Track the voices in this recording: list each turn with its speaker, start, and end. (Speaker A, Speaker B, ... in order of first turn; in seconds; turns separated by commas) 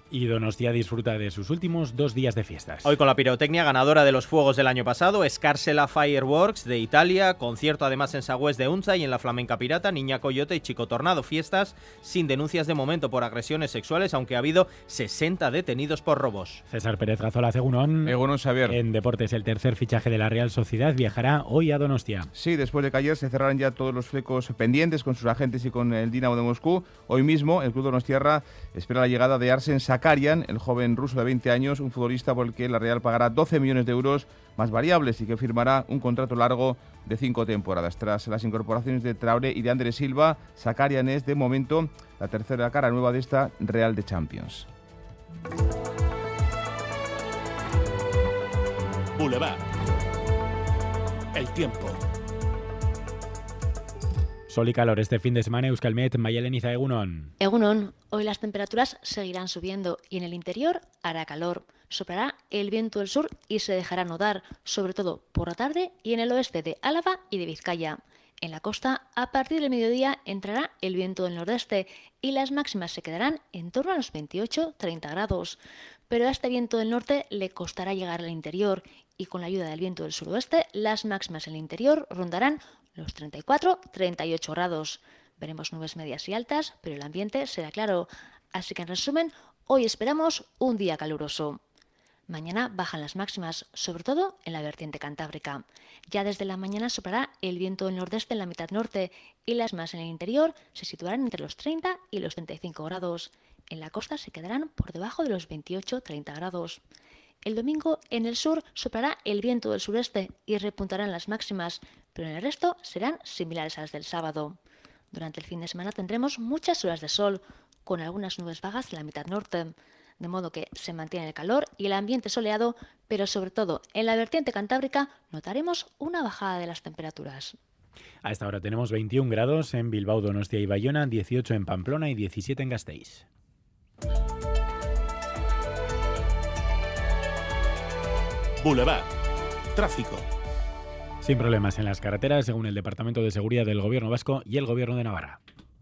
Speaker A: 0.1-3.0, Speaker B: 2.9-16.6, Speaker A: 16.7-18.1, Speaker C: 18.1-18.8, Speaker A: 18.7-22.3, Speaker C: 22.3-44.7, Speaker D: 49.2-49.6, Speaker D: 51.4-52.0, Speaker A: 54.5-57.3, Speaker E: 57.4-91.6, Speaker E: 92.3-106.8, Speaker E: 107.5-114.6, Speaker E: 115.1-127.6, Speaker A: 128.2-133.2, Speaker D: 138.6-139.1, Speaker D: 139.8-140.2, Speaker A: 141.2-145.4